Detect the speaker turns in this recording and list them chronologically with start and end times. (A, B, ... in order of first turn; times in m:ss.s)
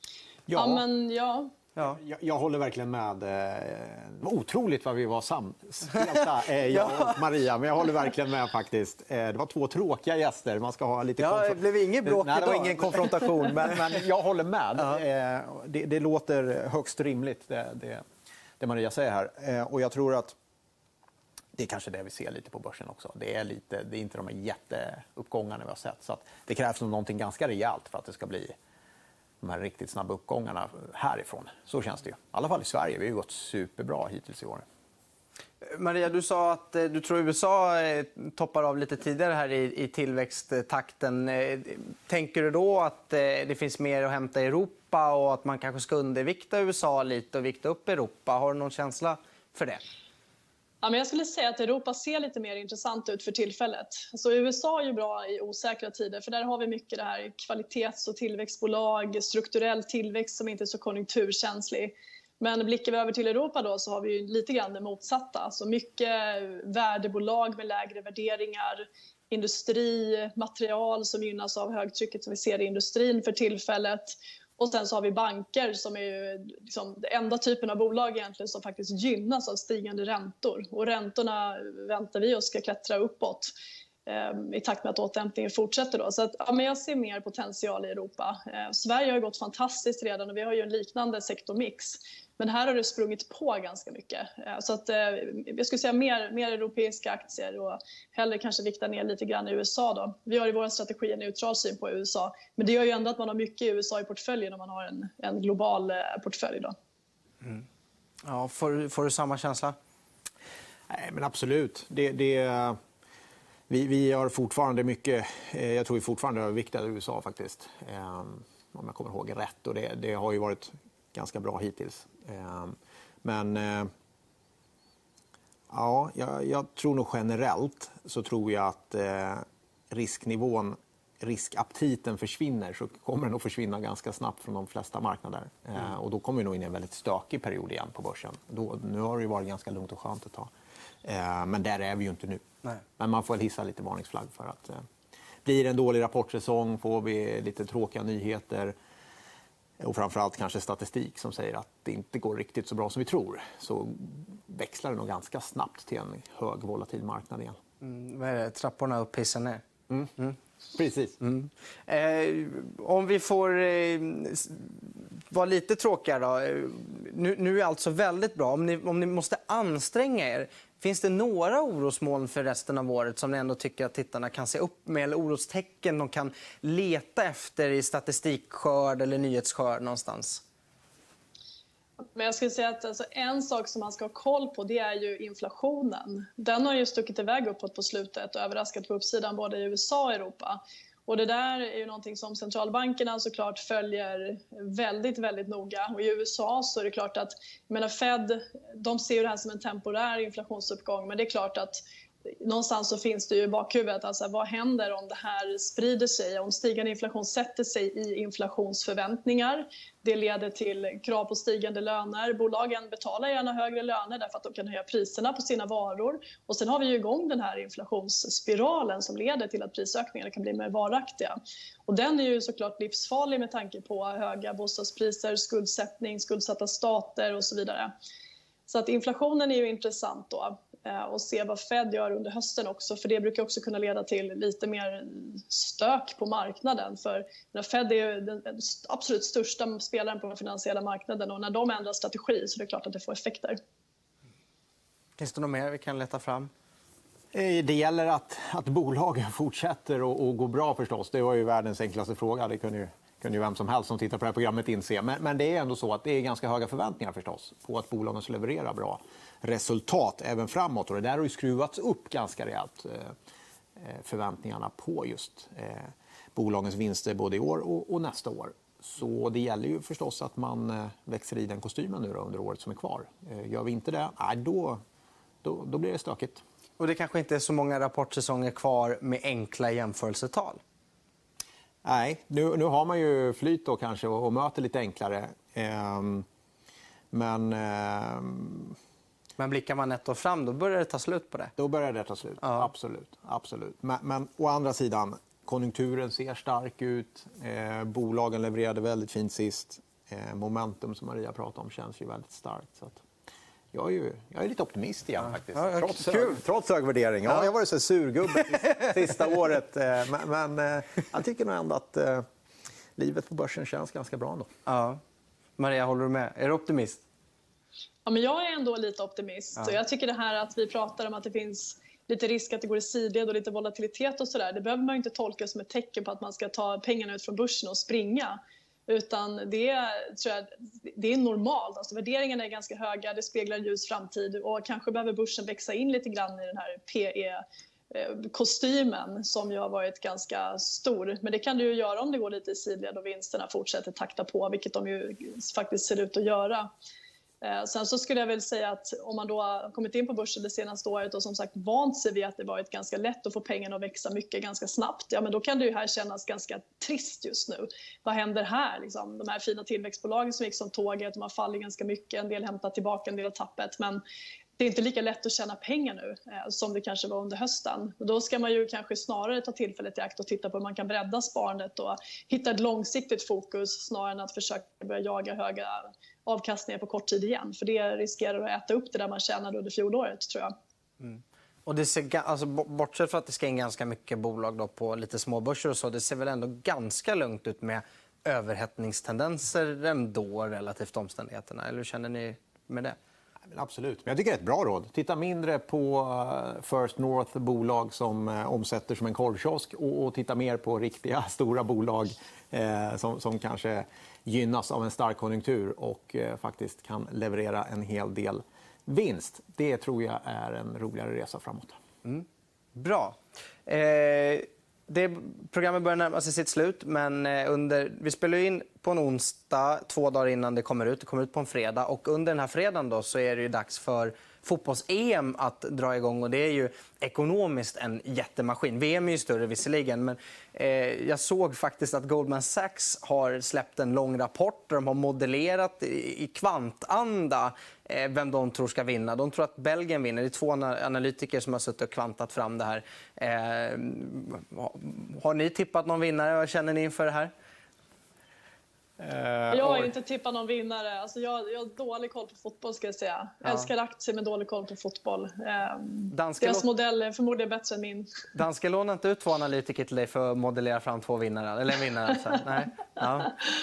0:00.5-0:00.8 A
0:00.5-0:01.5 B
0:01.8-0:18.0 A
0:06.7-0:07.2 C
0:11.2-0:13.8 C
0:18.6-0:20.4 A
0:21.6-0:28.6 A
0:29.4-0:34.6 A
0:35.6-0:49.8 C
0:50.8-1:23.5 B
1:24.1-1:46.7 B
1:48.2-1:49.8 C
1:50.9-1:52.8 A
1:53.7-2:03.9 A
2:05.7-2:20.5 A
2:21.0-2:22.5 A
2:23.0-2:24.8 A
2:25.4-2:28.7 A
2:29.8-2:37.6 A
2:37.8-2:39.6 C
2:40.7-2:41.2 A
2:41.2-3:00.4 C
3:02.2-3:21.8 B
3:22.4-3:41.4 B
3:41.9-3:47.9 B
3:48.7-4:03.6 B
4:05.2-4:06.5 C
4:07.3-4:23.2 A
4:23.8-4:34.8 A
4:35.4-4:36.4 A
4:36.8-4:40.6 C
4:41.8-4:46.3 A
4:47.1-4:48.8 A
4:49.4-4:51.5 C
4:51.6-5:03.0 A
4:52.4-4:52.7 C
5:03.7-5:12.3 A
5:05.5-5:06.4 C
5:08.6-5:08.9 C
5:13.0-5:14.5 A
5:14.7-5:15.0 C
5:15.6-5:17.0 C
5:18.1-5:46.7 B
5:47.4-6:04.0 B
6:04.6-6:20.5 B
6:21.0-6:33.0 C
6:33.5-6:51.8 A
6:52.0-7:27.3 C
7:29.0-7:29.9 A
7:29.5-7:38.2 B
7:33.4-7:33.7 C
7:36.1-7:36.6 C
7:38.3-7:43.4 C